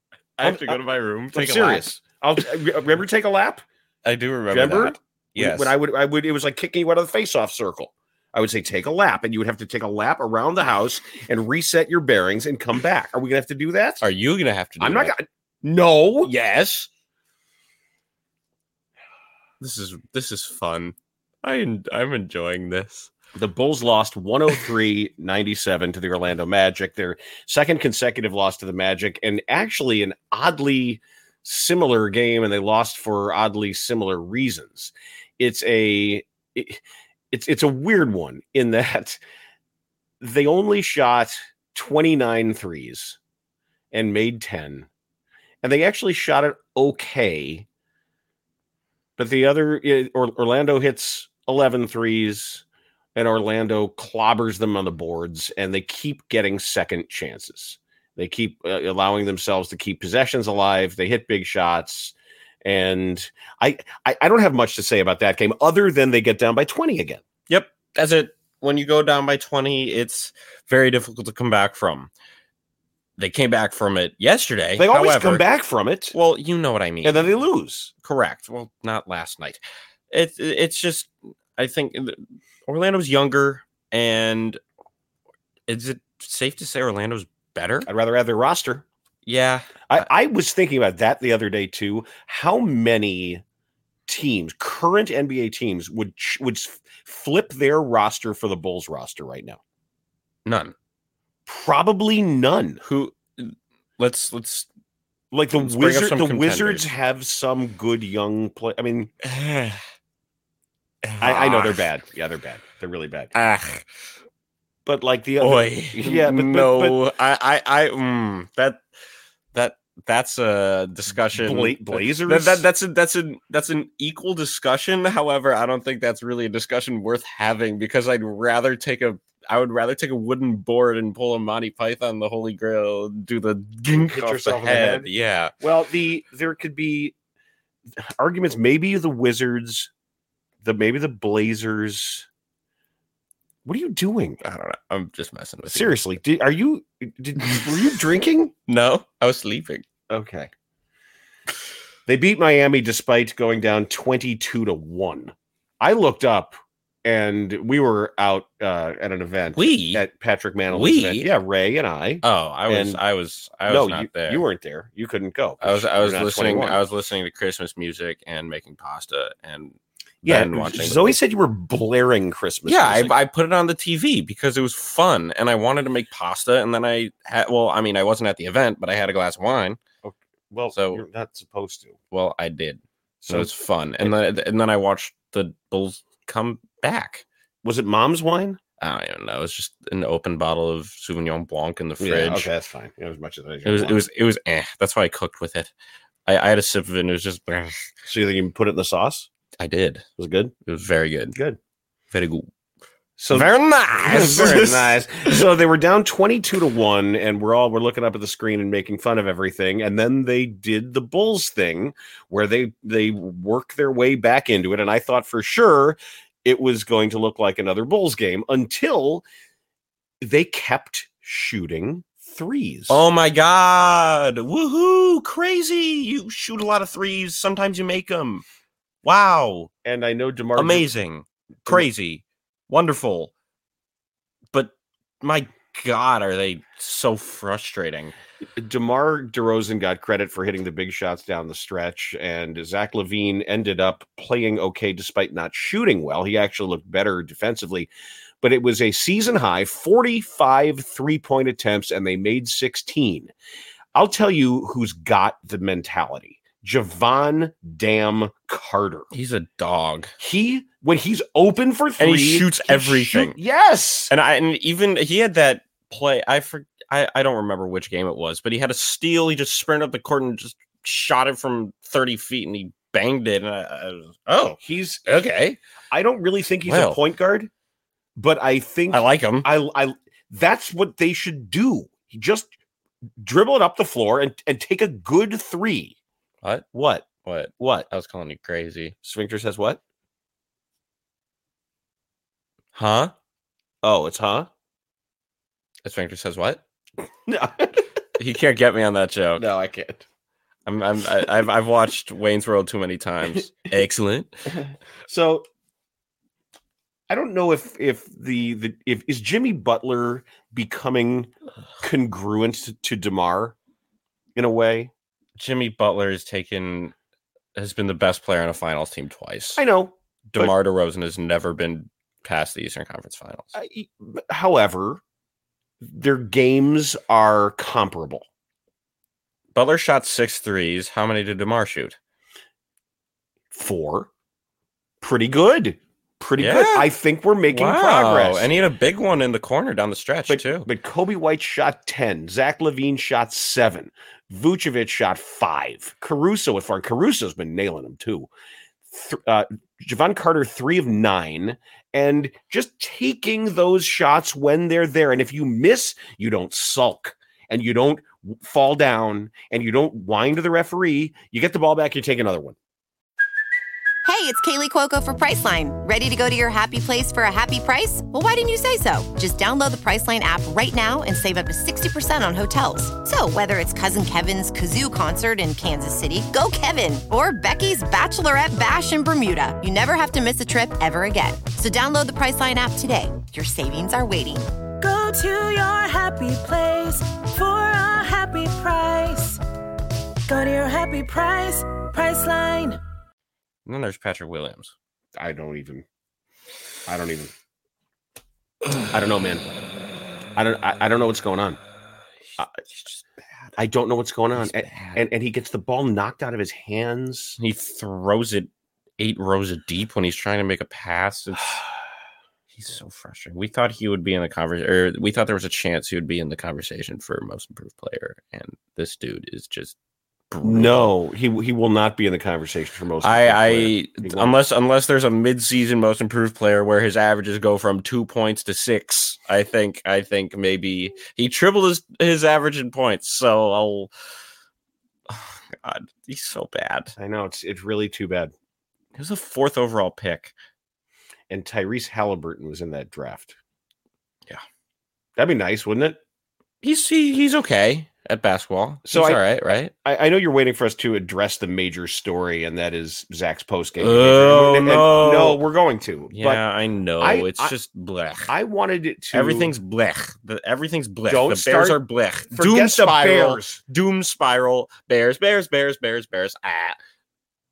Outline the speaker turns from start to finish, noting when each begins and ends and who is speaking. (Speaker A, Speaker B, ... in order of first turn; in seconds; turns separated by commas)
Speaker A: 0.4-1.9, Speaker B: 0.4-0.8, Speaker B: 1.3-3.6, Speaker A: 4.0-5.7, Speaker B: 4.5-14.1, Speaker A: 14.0-15.1, Speaker B: 14.8-16.3, Speaker A: 16.2-16.9, Speaker A: 19.6-23.1, Speaker B: 23.3-39.2, Speaker B: 40.2-43.2, Speaker B: 43.9-44.9, Speaker B: 45.6-47.6, Speaker B: 49.2-52.6, Speaker B: 53.1-67.2, Speaker A: 67.5-72.1, Speaker A: 73.2-75.4, Speaker B: 74.8-76.2, Speaker A: 76.1-77.3, Speaker B: 77.0-77.9, Speaker A: 78.0-84.6, Speaker A: 85.7-87.9, Speaker B: 87.8-88.8, Speaker A: 89.2-90.0, Speaker B: 89.9-93.4, Speaker B: 94.1-99.6, Speaker A: 100.5-100.7, Speaker B: 101.5-102.8, Speaker A: 102.8-104.7, Speaker B: 105.3-109.1, Speaker A: 105.6-106.9, Speaker A: 109.2-109.8, Speaker A: 111.0-111.8, Speaker B: 111.2-113.3, Speaker A: 113.3-113.8, Speaker B: 114.8-117.0, Speaker A: 115.4-118.8, Speaker A: 119.5-135.5, Speaker B: 121.3-122.6, Speaker B: 133.9-135.1, Speaker B: 135.6-137.1, Speaker B: 138.0-139.9, Speaker B: 140.6-142.3, Speaker B: 143.6-144.4, Speaker A: 144.4-146.0, Speaker B: 145.7-148.5, Speaker A: 148.7-149.8, Speaker B: 150.1-150.5, Speaker B: 152.1-163.0, Speaker A: 159.6-160.0, Speaker A: 160.7-161.3, Speaker A: 162.2-164.4, Speaker B: 163.7-166.8, Speaker A: 165.6-171.2, Speaker B: 170.2-173.1, Speaker A: 172.7-179.8, Speaker B: 180.0-182.0, Speaker A: 180.7-181.0, Speaker A: 182.1-187.2, Speaker B: 187.6-188.6, Speaker A: 188.8-192.5, Speaker B: 192.0-194.0, Speaker A: 193.7-195.7, Speaker A: 196.3-197.8, Speaker B: 198.1-199.3, Speaker A: 199.6-200.1, Speaker B: 200.2-200.5, Speaker A: 200.7-201.3, Speaker A: 202.1-202.5, Speaker B: 203.2-219.2, Speaker A: 203.3-205.3, Speaker B: 220.2-223.0, Speaker A: 222.9-228.4, Speaker A: 229.0-229.7, Speaker B: 229.8-230.8, Speaker A: 230.6-233.3, Speaker A: 234.5-238.1, Speaker B: 238.6-253.3, Speaker B: 253.9-259.1, Speaker A: 259.1-260.1, Speaker B: 260.2-264.1, Speaker A: 262.0-263.4, Speaker A: 264.1-275.6, Speaker B: 274.6-275.1, Speaker B: 275.9-277.5, Speaker A: 276.6-277.0, Speaker B: 278.1-282.5, Speaker A: 278.9-279.5, Speaker B: 283.2-286.0, Speaker B: 286.7-287.9, Speaker A: 287.2-288.9, Speaker B: 289.0-289.8, Speaker A: 292.7-293.1, Speaker B: 293.8-294.5, Speaker A: 295.8-296.6, Speaker B: 297.3-297.8, Speaker A: 298.2-299.4, Speaker B: 299.4-300.0, Speaker A: 300.7-304.3, Speaker B: 305.1-305.4, Speaker B: 307.1-313.6, Speaker B: 314.4-314.9, Speaker A: 315.4-316.9, Speaker A: 317.6-319.6, Speaker B: 319.6-320.5, Speaker A: 320.3-323.5, Speaker B: 323.5-325.0, Speaker B: 325.8-328.3, Speaker A: 329.5-332.0, Speaker B: 333.5-334.1, Speaker B: 335.0-338.5, Speaker A: 336.4-336.9, Speaker A: 337.5-340.7, Speaker B: 340.3-348.3, Speaker B: 348.9-362.6, Speaker C: 364.0-384.5, Speaker D: 384.8-389.4, Speaker D: 390.3-392.8, Speaker A: 393.6-394.7, Speaker B: 395.1-395.8, Speaker B: 396.9-397.3, Speaker B: 398.9-399.4, Speaker B: 400.4-401.6, Speaker A: 402.4-403.0, Speaker B: 403.6-407.4, Speaker A: 404.4-405.0, Speaker A: 407.4-411.6, Speaker A: 412.5-419.7, Speaker A: 420.3-420.9, Speaker B: 420.4-424.3, Speaker A: 423.0-433.9, Speaker A: 435.1-436.9, Speaker B: 437.0-438.3, Speaker A: 438.9-440.3, Speaker B: 441.3-443.4, Speaker B: 445.1-446.0, Speaker A: 446.6-449.7, Speaker B: 448.9-449.2, Speaker B: 449.7-456.4, Speaker A: 453.8-455.4, Speaker A: 456.1-458.3, Speaker B: 457.0-457.5, Speaker B: 458.3-459.5, Speaker A: 459.1-466.8, Speaker B: 461.1-461.8, Speaker B: 462.3-463.6